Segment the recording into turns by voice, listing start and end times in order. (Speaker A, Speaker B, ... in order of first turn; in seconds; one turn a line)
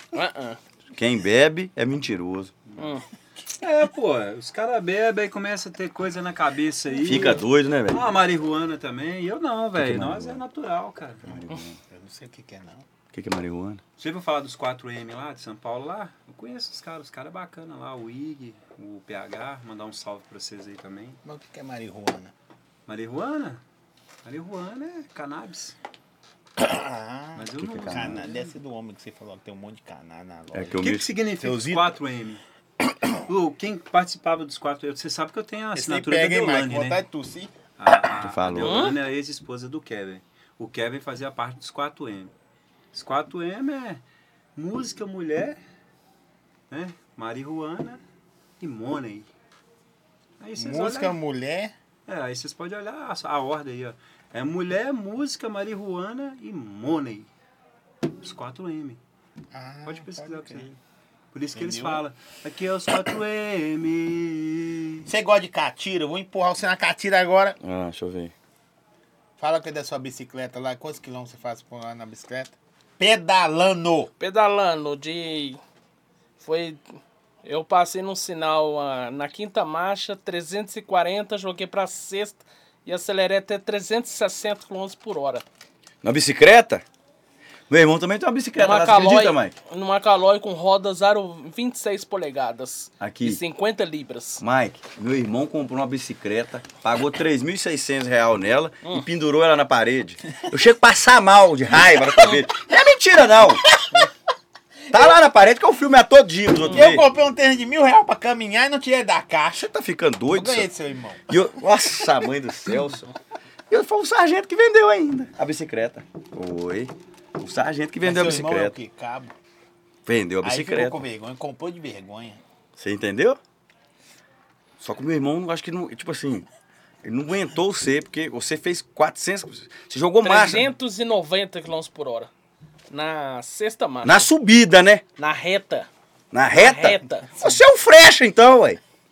Speaker A: 0.1-0.6
Speaker B: 0.9-2.5
Speaker C: 2.6-3.0
Speaker A: 2.8-3.0
Speaker C: 3.6-11.4
Speaker B: 7.0-8.0
Speaker B: 9.8-10.4
Speaker B: 11.2-11.8
Speaker D: 11.9-12.8
Speaker B: 13.1-13.8
Speaker C: 14.0-21.2
Speaker D: 21.2-22.3
Speaker C: 22.9-23.6
Speaker C: 24.2-25.8
Speaker D: 26.6-32.0
Speaker C: 27.3-28.5
Speaker B: 27.6-28.2
Speaker B: 30.5-31.1
Speaker C: 30.7-32.4
Speaker C: 33.2-37.0
Speaker D: 35.7-37.5
Speaker C: 37.8-42.3
Speaker B: 38.0-38.9
Speaker A: 38.6-38.9
Speaker C: 42.9-44.0
Speaker C: 44.5-45.6
Speaker C: 46.7-48.0
Speaker C: 48.6-49.3
Speaker C: 50.4-51.2
Speaker D: 50.6-51.7
Speaker C: 52.0-57.3
Speaker C: 58.2-59.0
Speaker D: 59.5-60.7
Speaker C: 59.8-60.8
Speaker C: 61.3-65.1
Speaker D: 61.5-62.0
Speaker D: 65.1-67.6
Speaker B: 67.6-68.3
Speaker D: 69.4-74.1
Speaker A: 74.2-75.6
Speaker A: 76.4-76.8
Speaker A: 77.4-85.4
Speaker B: 86.0-86.8
Speaker B: 87.7-89.5
Speaker A: 88.5-94.4
Speaker B: 93.0-93.4
Speaker B: 94.4-103.7
Speaker B: 104.9-107.1
Speaker D: 106.7-109.7
Speaker B: 109.5-110.7
Speaker D: 110.3-111.2
Speaker B: 111.3-113.1
Speaker B: 113.7-118.8
Speaker D: 118.0-119.3
Speaker B: 120.0-121.0
Speaker D: 120.4-122.4
Speaker B: 122.8-123.4
Speaker B: 124.8-126.5
Speaker B: 127.0-130.7
Speaker A: 130.2-132.3
Speaker A: 132.9-134.3
Speaker B: 134.0-135.0
Speaker A: 135.2-135.9
Speaker B: 136.3-138.8
Speaker A: 136.5-137.3